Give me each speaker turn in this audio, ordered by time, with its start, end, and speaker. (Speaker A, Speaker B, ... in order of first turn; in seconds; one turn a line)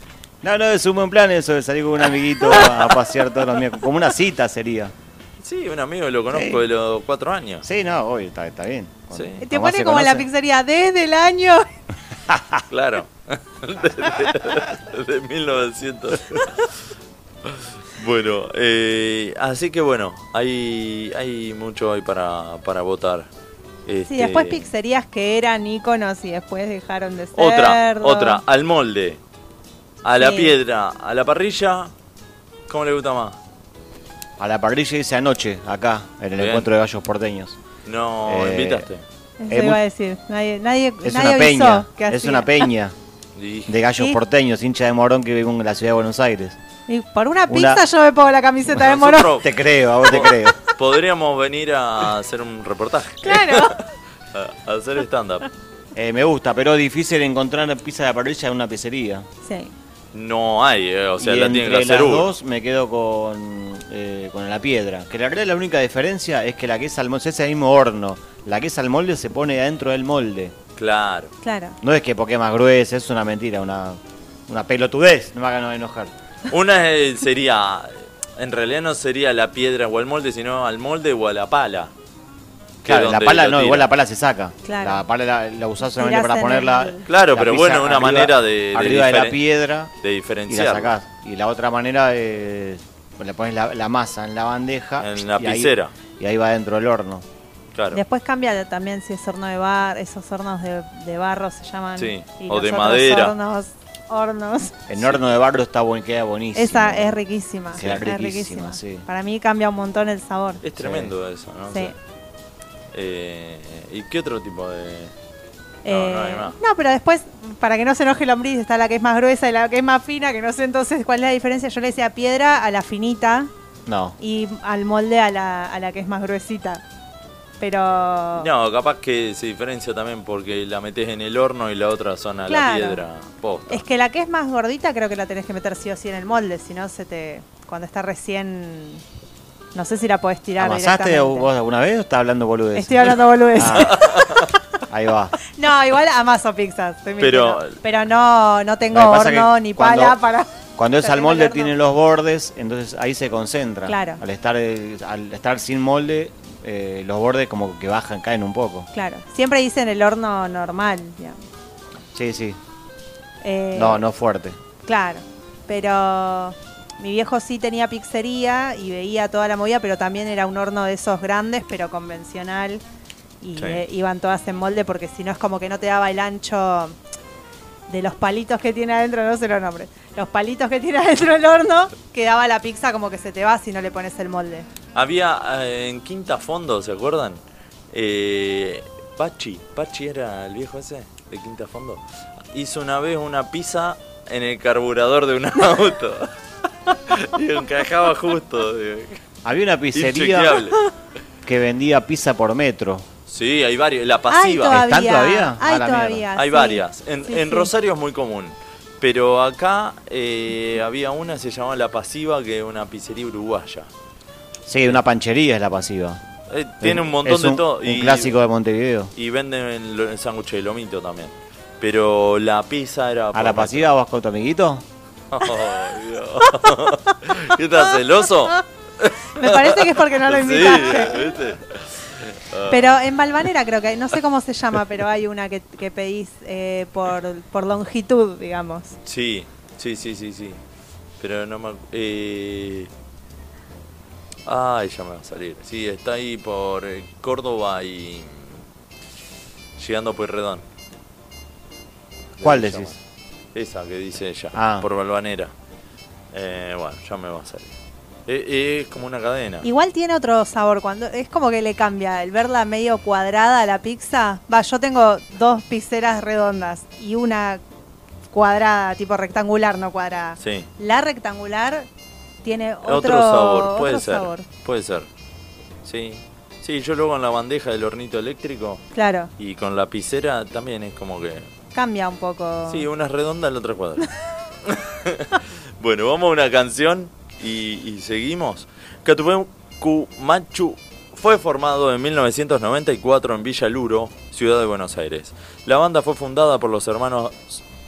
Speaker A: 0.4-4.9
Speaker B: 5.4-7.6
Speaker A: 6.3-6.6
Speaker A: 7.6-10.3
Speaker B: 9.1-9.4
Speaker C: 9.4-11.7
Speaker A: 12.3-12.6
Speaker B: 12.7-16.7
Speaker B: 17.4-23.3
Speaker B: 23.9-24.7
Speaker C: 24.1-28.4
Speaker B: 27.4-29.2
Speaker B: 30.0-31.9
Speaker C: 30.2-30.5
Speaker B: 32.7-33.4
Speaker A: 34.4-37.6
Speaker B: 36.4-36.7
Speaker B: 37.9-39.0
Speaker A: 38.2-38.9
Speaker C: 39.4-42.7
Speaker A: 39.5-39.8
Speaker A: 41.0-42.9
Speaker B: 43.4-43.7
Speaker A: 43.7-46.6
Speaker C: 46.9-49.3
Speaker A: 47.5-47.8
Speaker B: 48.7-49.5
Speaker A: 49.4-50.6
Speaker B: 50.0-53.8
Speaker C: 53.2-53.8
Speaker B: 54.3-55.5
Speaker A: 55.9-59.3
Speaker C: 59.4-59.7
Speaker B: 60.1-62.3
Speaker A: 61.2-70.5
Speaker B: 70.8-71.3
Speaker C: 71.4-71.8
Speaker A: 71.8-76.1
Speaker B: 76.5-81.9
Speaker B: 82.8-83.9
Speaker A: 82.8-89.9
Speaker C: 84.6-85.0
Speaker C: 85.9-87.0
Speaker B: 87.1-89.4
Speaker B: 90.0-90.9
Speaker A: 90.5-97.2
Speaker B: 95.0-95.9
Speaker B: 97.7-98.0
Speaker C: 97.9-104.8
Speaker B: 102.0-103.3
Speaker A: 104.9-107.2
Speaker C: 106.5-110.6
Speaker A: 107.7-109.0
Speaker B: 110.6-111.9
Speaker A: 110.8-111.1
Speaker B: 112.9-115.1
Speaker C: 115.8-123.5
Speaker B: 115.8-116.5
Speaker A: 123.8-124.2
Speaker C: 124.2-126.8
Speaker C: 127.6-128.5
Speaker B: 128.3-133.8
Speaker C: 132.5-133.0
Speaker C: 133.7-139.0
Speaker C: 139.7-141.5
Speaker A: 140.6-144.0
Speaker C: 142.7-144.5
Speaker B: 143.8-144.4
Speaker A: 144.9-145.3
Speaker C: 145.5-151.7
Speaker B: 147.2-147.8
Speaker A: 148.9-150.2
Speaker A: 150.8-158.9
Speaker C: 153.8-154.2
Speaker C: 158.9-161.4
Speaker A: 162.1-162.6
Speaker C: 163.4-164.0
Speaker A: 163.7-164.6
Speaker C: 164.8-172.8
Speaker C: 173.4-176.9
Speaker C: 177.9-184.7
Speaker B: 184.9-196.3
Speaker B: 196.9-199.2
Speaker A: 199.4-200.6
Speaker B: 199.9-200.8
Speaker A: 201.4-203.1
Speaker B: 203.3-204.8
Speaker C: 204.3-207.7
Speaker A: 204.7-206.3
Speaker B: 206.3-213.9
Speaker A: 214.7-216.2
Speaker B: 216.5-218.4
Speaker A: 216.8-219.1
Speaker B: 219.2-223.9
Speaker A: 223.3-224.8
Speaker B: 225.3-233.0
Speaker C: 229.4-231.3
Speaker C: 232.7-239.0
Speaker B: 239.1-240.6
Speaker B: 241.2-242.9
Speaker B: 244.4-248.6
Speaker B: 249.8-250.6
Speaker B: 252.4-253.0
Speaker A: 252.4-252.9
Speaker B: 253.5-255.5
Speaker A: 254.5-254.9
Speaker B: 256.3-257.7
Speaker B: 258.3-259.6
Speaker C: 259.6-267.6
Speaker C: 268.3-271.9
Speaker B: 270.4-270.7
Speaker C: 272.4-274.4
Speaker B: 272.8-275.1
Speaker B: 275.8-278.8
Speaker C: 278.9-279.3
Speaker B: 279.4-281.5
Speaker C: 281.7-282.9
Speaker B: 282.7-284.1
Speaker B: 284.6-297.6